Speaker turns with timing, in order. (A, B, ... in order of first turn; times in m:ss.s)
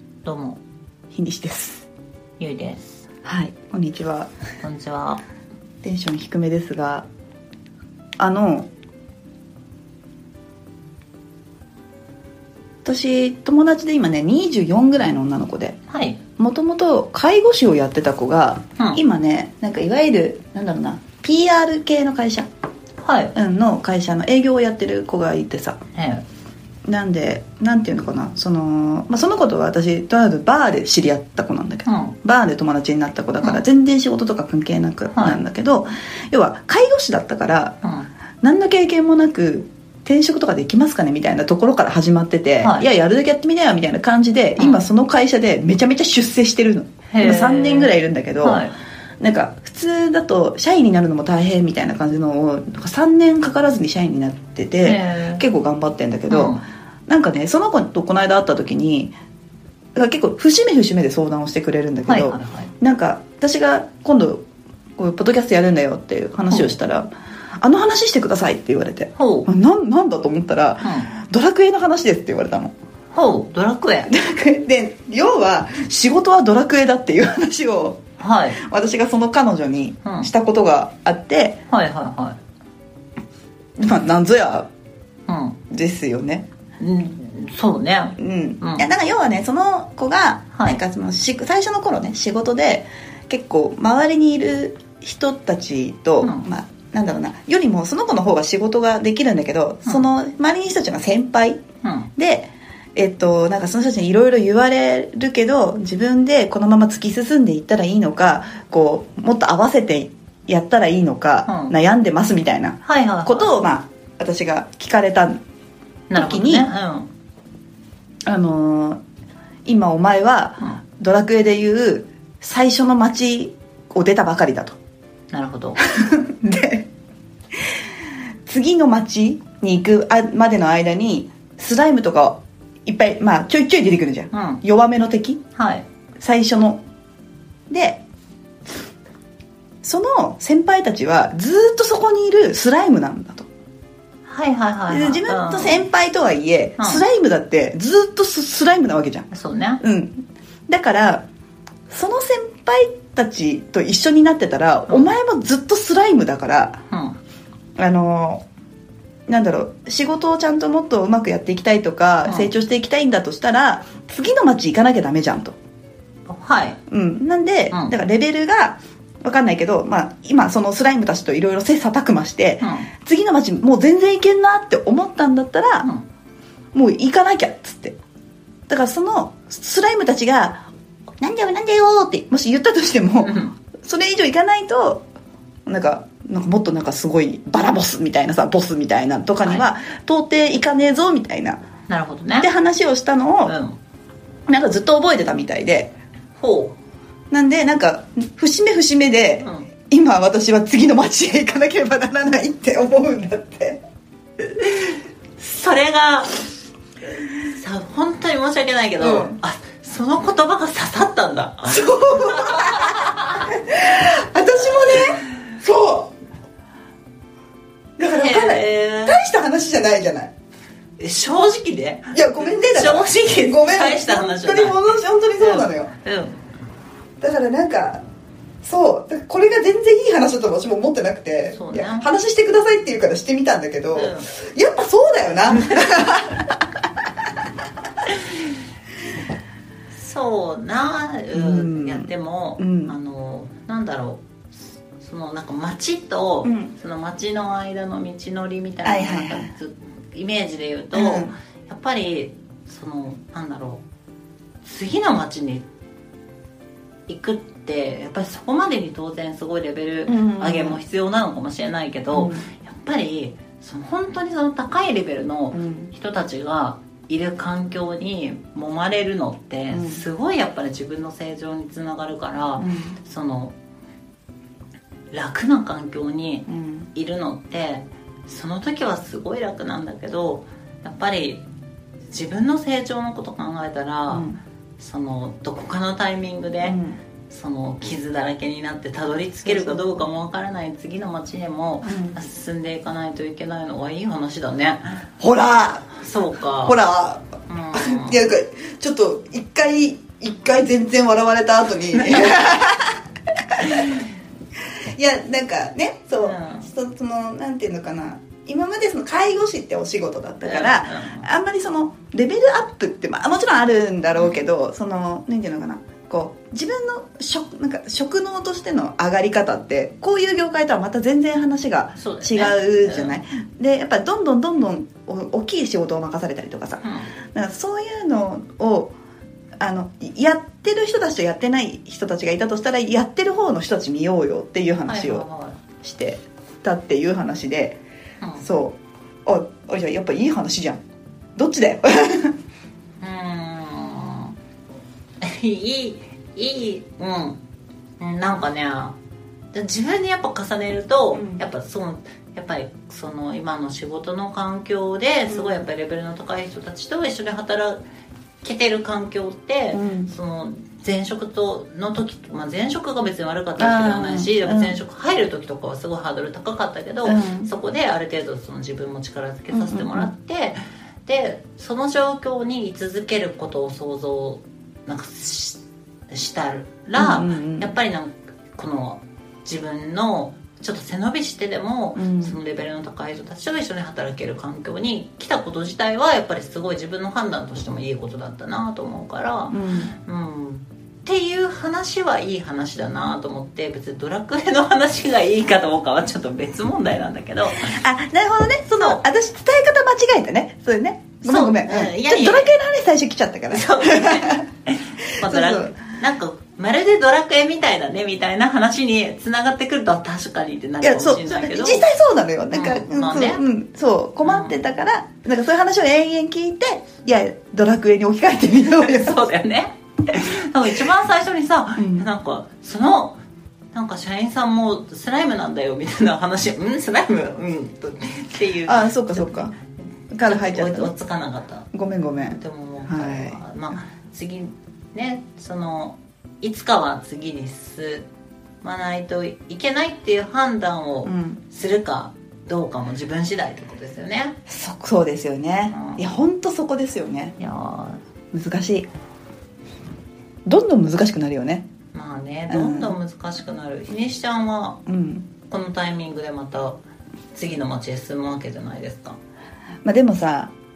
0:00.2-0:00.6 A
0:01.1-0:01.9 B
0:02.4-0:03.0 A
0:03.2-0:04.3 B
0:04.6-0:05.2 A
0:05.8-0:07.0 B
0:08.2-0:08.7 B
0:12.8-0:15.8 B
0:15.9-0:16.2 A
0:16.4-0:22.5 B
0:23.0-0:23.3 A
0:23.3-0:25.8 B
0:25.9-0:26.2 A
0:26.9-0:37.8 B
0:31.8-0:32.1 A
0:35.1-0:35.4 A
0:37.8-0:38.1 A
0:38.4-0:48.7 B
0:44.6-0:44.8 A
0:47.1-0:48.7 A
0:49.2-0:59.1 B
0:54.8-0:55.4 A
0:56.3-0:56.6 A
0:59.9-1:04.4 B
1:02.1-1:02.7 A
1:05.0-1:07.1 B
1:06.5-1:06.7 A
1:07.6-1:12.7 B
1:09.2-1:09.5 A
1:10.8-1:11.1 A
1:13.1-1:14.1 A
1:14.1-1:18.0 B
1:18.2-1:18.6 A
1:18.5-1:21.6 B
1:20.0-1:20.3 A
1:21.7-1:22.4 A
1:23.8-1:24.7 B
1:25.3-1:25.6 A
1:25.7-1:26.5 B
1:26.8-1:28.9 A
1:28.2-1:41.6 B
1:30.5-1:30.8 A
1:36.2-1:36.5 A
1:41.8-1:42.1 A
1:42.2-1:55.4 B
1:51.4-1:51.8 A
1:52.8-1:53.5 A
1:56.1-1:57.1 A
1:56.1-1:56.7 B
1:58.3-1:59.0 B
1:59.6-2:04.8 B
2:05.3-2:05.8 A
2:05.9-2:06.9 B
2:08.4-2:15.4 B
2:14.3-2:14.6 A
2:15.6-2:15.8 A
2:16.2-2:16.8 B
2:17.7-2:18.0 B
2:19.8-2:23.5 B
2:24.3-2:25.8 A
2:24.9-2:29.3 B
2:29.3-2:29.8 A
2:29.8-2:31.2 B
2:31.9-2:36.8 B
2:36.9-2:37.2 A
2:37.8-2:38.4 B
2:39.3-2:45.5 B
2:42.2-2:42.5 A
2:46.3-2:46.8 A
2:46.9-2:55.9 B
2:47.7-2:48.0 A
2:52.6-2:52.9 A
2:56.7-2:58.0 B
2:58.7-3:00.7 B
3:01.2-3:05.0 B
3:03.2-3:03.5 A
3:05.6-3:11.6 B
3:11.9-3:12.5 A
3:12.4-3:13.6 B
3:13.4-3:13.8 A
3:14.5-3:15.9 B
3:16.4-3:16.8 A
3:17.3-3:23.8 B
3:19.4-3:19.7 A
3:24.5-3:26.4 A
3:27.5-3:33.2 A
3:29.0-3:29.4 B
3:31.7-3:36.1 B
3:38.0-3:40.3 B
3:38.2-3:39.2 A
3:41.0-3:44.8 A
3:42.1-3:45.9 B
3:45.4-3:46.4 A
3:47.2-3:48.0 B
3:48.6-3:56.6 B
3:51.5-3:52.1 A
3:53.9-3:54.3 A
3:59.9-4:13.8 A
4:01.3-4:02.9 B
4:06.4-4:06.7 B
4:08.8-4:09.5 B
4:10.9-4:11.3 B
4:14.6-4:15.6 A
4:17.1-4:33.5 A
4:20.1-4:20.8 B
4:22.1-4:22.5 B
4:25.5-4:25.9 B
4:29.7-4:30.0 B
4:32.6-4:33.0 B
4:35.1-4:41.4 A
4:36.5-4:36.9 B
4:42.1-4:44.3 A
4:44.1-4:44.4 B
4:44.8-4:46.8 A
4:46.6-4:47.0 B
4:47.3-4:55.0 A
4:49.4-4:50.0 B
4:51.8-4:52.2 B
4:55.2-4:56.0 B
4:55.9-4:56.8 A
4:56.6-5:03.9 B
4:57.5-4:58.2 A
5:01.9-5:02.4 A
5:03.7-5:04.0 A
5:04.9-5:26.8 B
5:06.2-5:06.7 A
5:10.4-5:11.2 A
5:22.0-5:23.2 A
5:26.8-5:27.1 A
5:27.3-5:28.9 B
5:29.6-5:35.3 B
5:34.9-5:35.6 A
5:35.8-5:37.8 B
5:38.4-5:40.8 B
5:41.4-5:42.3 B
5:43.0-5:44.3 A
5:45.2-5:47.4 A
5:48.0-5:49.0 A
5:49.5-5:57.8 A
5:51.1-5:51.4 B
5:55.3-5:55.7 B
5:58.4-6:37.8 A
5:59.7-6:00.1 B
6:03.6-6:04.8 B
6:07.0-6:07.5 B
6:09.5-6:10.1 B
6:17.0-6:17.7 B
6:22.0-6:22.4 B
6:29.5-6:29.9 B
6:37.6-6:44.4 B
6:38.7-6:39.0 A
6:41.2-6:42.5 A
6:43.5-6:51.9 A
6:45.2-6:45.7 B
6:50.8-6:59.2 B
6:52.5-6:53.4 A
6:54.2-6:54.6 A
6:58.6-7:03.2 A
7:01.8-7:02.1 B
7:03.7-7:09.5 A
7:08.6-7:09.5 B
7:10.1-7:10.9 B
7:10.2-7:11.7 A
7:11.7-7:13.4 B
7:12.3-7:18.1 A
7:18.6-7:24.4 A
7:21.0-7:21.4 B
7:24.5-7:27.4 B
7:25.7-7:26.1 A
7:27.4-7:28.0 A
7:28.3-7:28.9 B
7:30.4-7:31.7 B
7:31.9-7:34.8 A
7:32.5-7:33.0 B
7:34.9-7:35.3 B
7:35.5-7:36.8 A
7:37.3-7:39.2 A
7:39.8-7:40.5 B